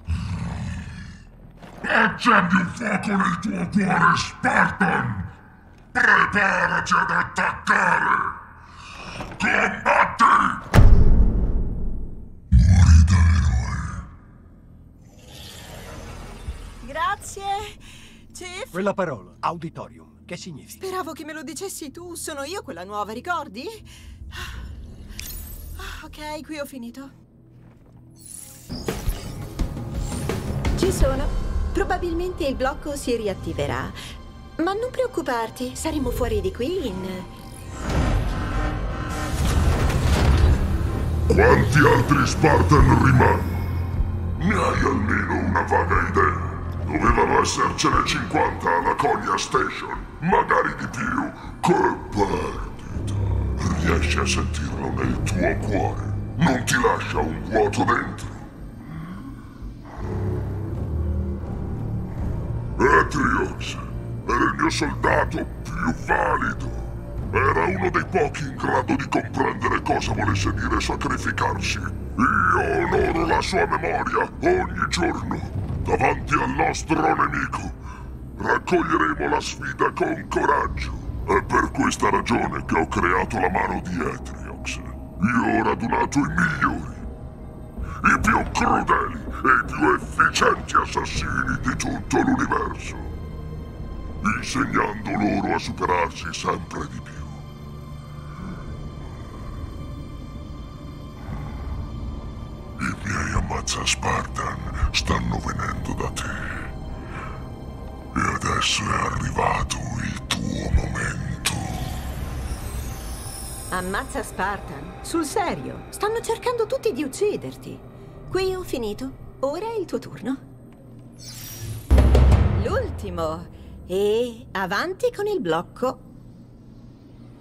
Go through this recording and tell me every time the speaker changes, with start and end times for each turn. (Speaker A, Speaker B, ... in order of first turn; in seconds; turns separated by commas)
Speaker A: 1.8-5.3, Speaker A: 5.9-8.4, Speaker A: 9.4-10.6, Speaker A: 12.5-14.1, Speaker B: 16.8-17.8, Speaker B: 18.3-18.8, Speaker C: 18.7-20.8, Speaker B: 20.8-24.5, Speaker B: 25.8-27.1, Speaker B: 30.7-34.0, Speaker B: 34.6-37.3, Speaker A: 41.3-43.5, Speaker A: 44.4-58.5, Speaker A: 62.8-77.7, Speaker A: 78.4-87.0, Speaker A: 88.0-93.1, Speaker A: 94.2-97.4, Speaker A: 102.8-106.3, Speaker A: 108.1-111.9, Speaker B: 113.7-120.4, Speaker B: 122.5-126.0